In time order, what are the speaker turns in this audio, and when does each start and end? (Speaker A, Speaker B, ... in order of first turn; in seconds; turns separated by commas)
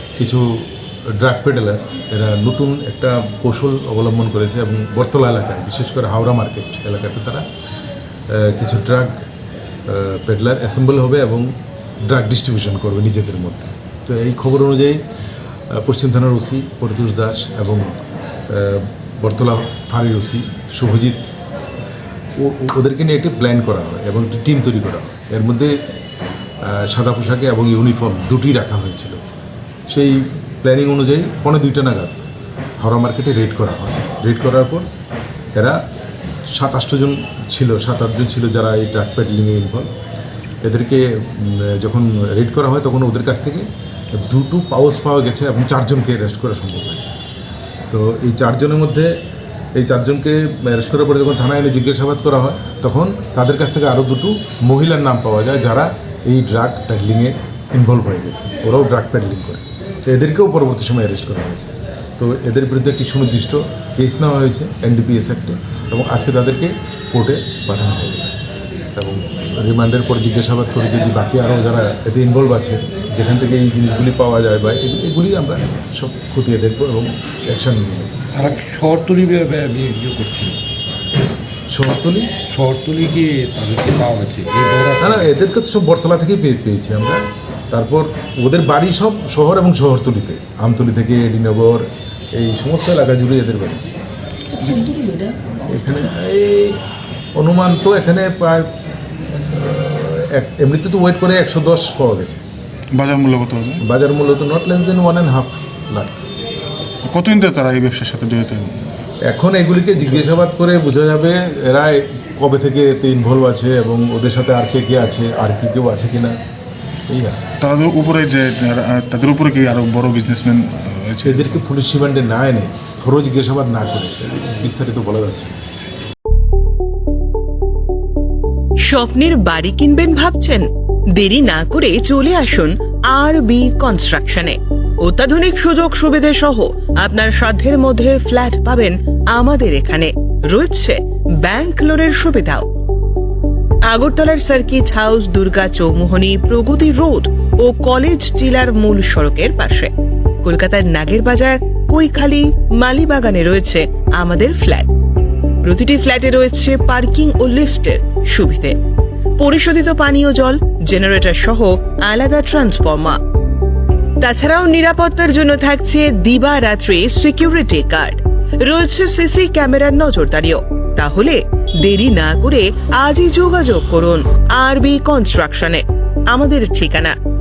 Speaker A: 0.2-7.5, Speaker A: 8.3-9.2, Speaker A: 9.9-11.5, Speaker A: 12.1-15.0, Speaker A: 15.7-21.3, Speaker A: 22.4-25.8, Speaker A: 26.6-29.2, Speaker A: 29.9-32.3, Speaker A: 32.8-34.9, Speaker A: 35.5-35.8, Speaker A: 36.5-39.9, Speaker A: 40.6-47.2, Speaker A: 47.9-49.2, Speaker A: 49.8-68.3, Speaker A: 69.0-78.2, Speaker B: 78.3-80.6, Speaker A: 81.7-82.3, Speaker B: 82.5-85.3, Speaker A: 85.0-93.9, Speaker C: 94.6-95.0, Speaker A: 95.5-96.8, Speaker A: 97.4-98.7, Speaker A: 99.3-102.4, Speaker C: 102.9-103.8, Speaker A: 103.8-106.2, Speaker C: 107.0-109.1, Speaker A: 109.2-116.3, Speaker A: 117.1-117.4, Speaker C: 117.6-121.6, Speaker A: 121.2-125.7, Speaker D: 128.8-142.7, Speaker D: 143.9-149.9, Speaker D: 150.4-154.9, Speaker D: 155.6-158.8, Speaker D: 159.4-163.2, Speaker D: 164.2-177.2